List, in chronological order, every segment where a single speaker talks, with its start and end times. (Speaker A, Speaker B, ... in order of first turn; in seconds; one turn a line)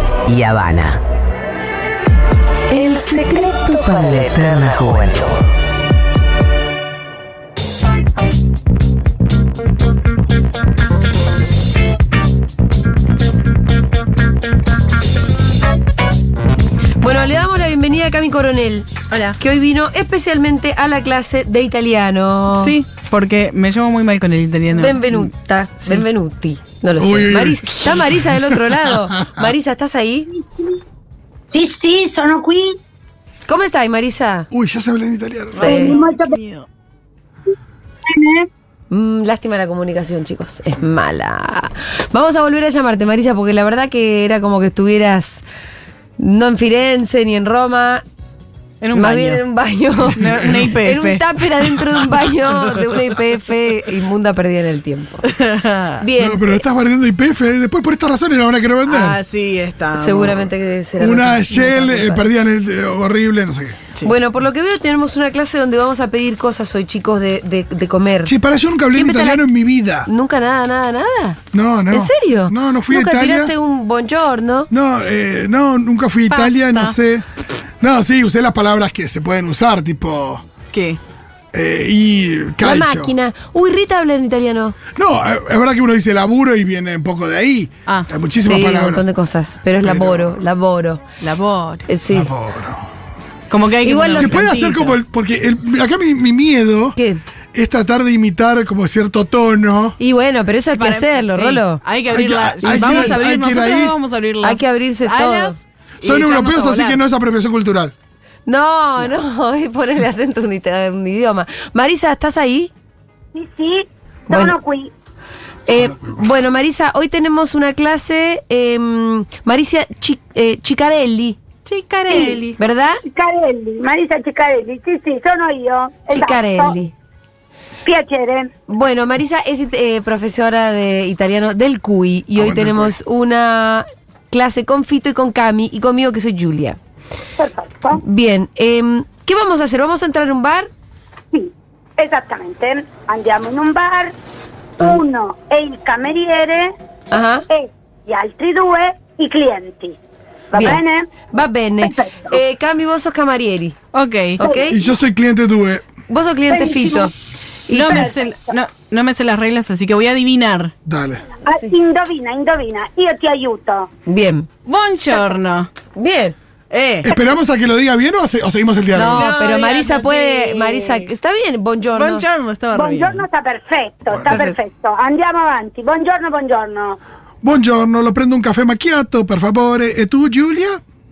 Speaker A: 0.3-1.0
Speaker B: 2.7-4.2
Speaker A: 2.8-5.4
Speaker B: 17.0-22.7
Speaker C: 19.1-19.4
Speaker C: 22.5-25.2
Speaker B: 24.8-30.4
Speaker D: 27.0-28.8
Speaker E: 31.5-32.8
Speaker B: 33.5-34.5
Speaker D: 34.5-35.8
Speaker B: 35.5-36.0
Speaker C: 35.6-36.7
Speaker E: 35.6-36.4
Speaker E: 38.1-38.5
Speaker B: 38.9-45.4
Speaker B: 46.2-48.0
Speaker C: 48.8-49.4
Speaker B: 48.9-50.2
Speaker C: 50.2-51.2
Speaker D: 50.3-50.6
Speaker B: 50.8-55.2
Speaker C: 55.2-56.0
Speaker B: 56.0-56.6
Speaker D: 56.2-59.2
Speaker C: 58.8-60.4
Speaker B: 59.9-62.2
Speaker D: 61.0-63.9
Speaker B: 64.0-68.3
Speaker D: 68.2-70.1
Speaker B: 68.9-69.4
Speaker B: 70.0-71.4
Speaker D: 71.5-73.5
Speaker B: 71.9-74.7
Speaker D: 74.7-77.2
Speaker C: 76.3-77.0
Speaker D: 77.8-80.4
Speaker C: 80.7-81.0
Speaker D: 81.5-83.1
Speaker B: 82.6-84.8
Speaker D: 84.9-89.0
Speaker B: 88.4-91.0
Speaker D: 89.8-90.4
Speaker C: 91.2-91.9
Speaker B: 91.9-92.3
Speaker D: 92.1-92.8
Speaker C: 93.5-95.0
Speaker B: 93.8-94.4
Speaker D: 94.1-97.0
Speaker B: 97.0-97.2
Speaker D: 97.5-100.0
Speaker B: 100.0-101.8
Speaker C: 100.7-107.0
Speaker D: 102.1-104.0
Speaker B: 102.6-103.2
Speaker B: 104.4-105.6
Speaker D: 106.0-107.9
Speaker B: 108.5-112.7
Speaker E: 113.3-114.9
Speaker B: 114.3-114.6
Speaker B: 115.7-121.4
Speaker D: 115.7-116.2
Speaker C: 121.7-122.6
Speaker E: 122.1-122.4
Speaker B: 122.6-123.0
Speaker E: 123.0-126.7
Speaker B: 126.1-126.9
Speaker E: 127.8-128.5
Speaker B: 128.7-136.8
Speaker D: 132.3-132.9
Speaker E: 137.4-138.0
Speaker B: 138.0-140.7
Speaker E: 141.3-144.1
Speaker E: 144.8-146.7
Speaker B: 147.1-147.4
Speaker E: 147.5-150.0
Speaker E: 150.5-151.1
Speaker B: 150.5-153.8
Speaker E: 151.8-152.4
Speaker C: 153.9-154.4
Speaker B: 154.4-154.8
Speaker E: 154.4-154.7
Speaker D: 154.7-155.8
Speaker B: 156.1-157.1
Speaker E: 156.5-157.1
Speaker B: 157.7-158.1
Speaker C: 157.7-160.7
Speaker E: 157.8-158.3
Speaker D: 160.8-161.2
Speaker E: 161.4-163.9
Speaker B: 164.1-164.5
Speaker C: 164.6-165.7
Speaker B: 165.9-166.3
Speaker C: 166.7-167.1
Speaker D: 167.0-169.3
Speaker B: 168.9-172.2
Speaker C: 169.0-171.1
Speaker C: 171.9-173.2
Speaker E: 172.7-177.0
Speaker D: 174.1-174.4
Speaker B: 174.2-174.6
Speaker D: 177.4-180.8